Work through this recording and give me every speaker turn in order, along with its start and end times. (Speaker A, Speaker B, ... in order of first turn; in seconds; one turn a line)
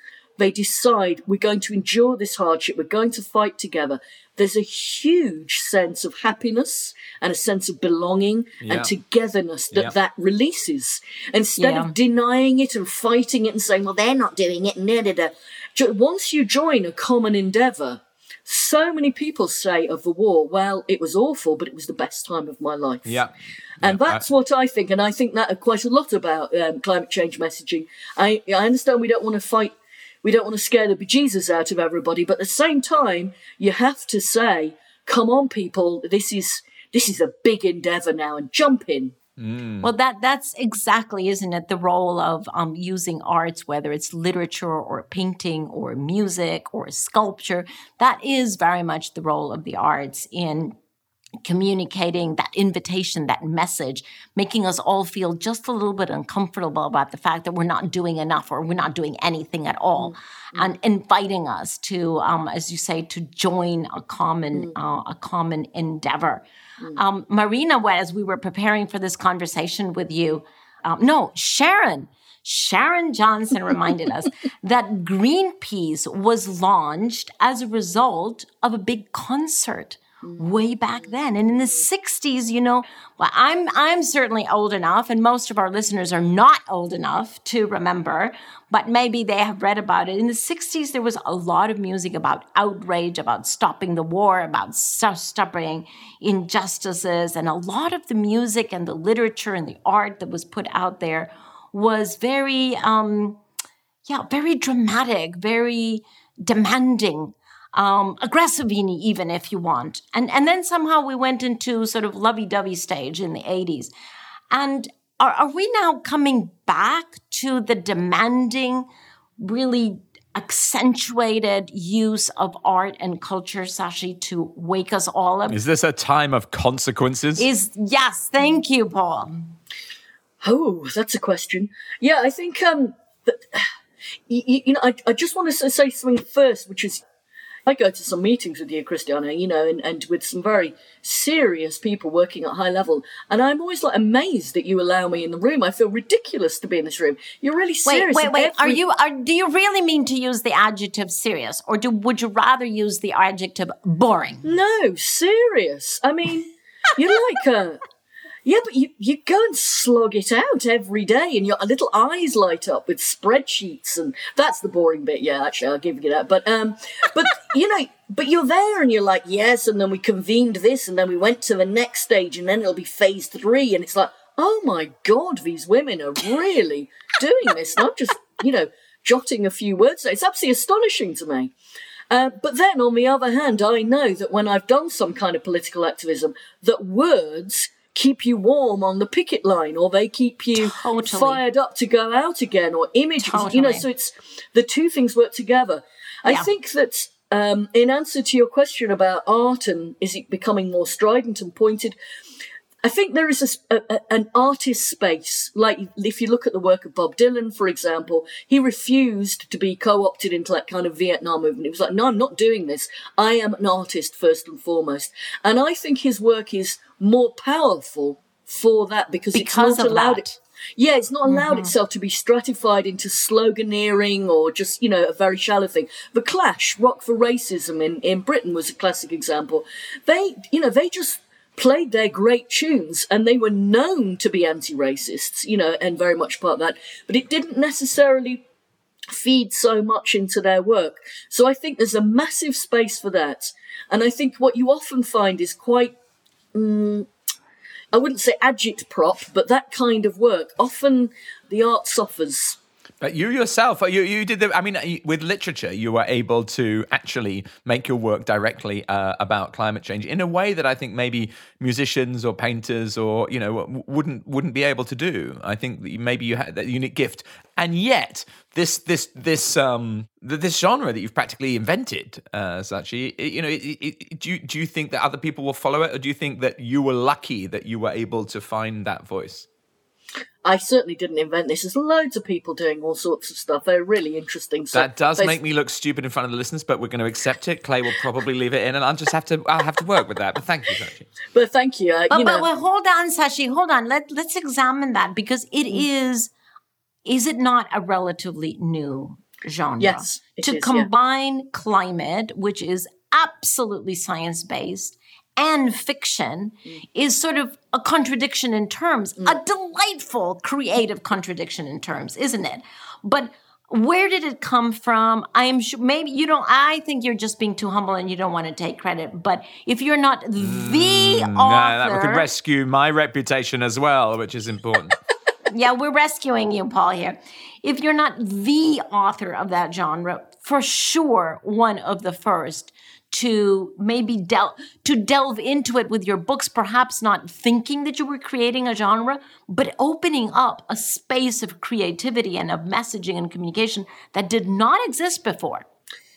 Speaker A: 0.4-23.2
Speaker B: 8.6-8.9
Speaker C: 11.6-11.9
Speaker B: 23.1-24.2
Speaker A: 23.8-39.1
Speaker B: 39.4-39.9
Speaker C: 39.8-50.8
Speaker C: 51.4-66.4
Speaker A: 60.0-60.7
Speaker C: 66.9-103.4
Speaker C: 104.0-113.9
Speaker C: 114.5-118.9
Speaker C: 119.4-125.6
Speaker B: 125.5-127.5
Speaker C: 127.4-129.5
Speaker A: 130.4-133.7
Speaker A: 134.3-137.0
Speaker A: 137.7-148.8
Speaker C: 147.8-154.5
Speaker A: 154.4-157.8
Speaker A: 158.4-181.5
Speaker A: 182.1-201.9
Speaker C: 190.5-191.4
Speaker C: 193.2-193.8
Speaker A: 202.8-220.2
Speaker C: 219.3-220.4
Speaker A: 220.8-238.4
Speaker C: 221.3-221.7
Speaker A: 239.1-245.9
Speaker A: 246.5-247.1
Speaker A: 247.9-252.6
Speaker B: 253.0-279.5
Speaker A: 280.4-285.4
Speaker B: 284.7-291.1
Speaker A: 291.3-292.4
Speaker C: 292.1-296.3
Speaker C: 297.0-322.3
Speaker A: 299.8-300.9
Speaker B: 320.4-325.0
Speaker C: 325.5-345.6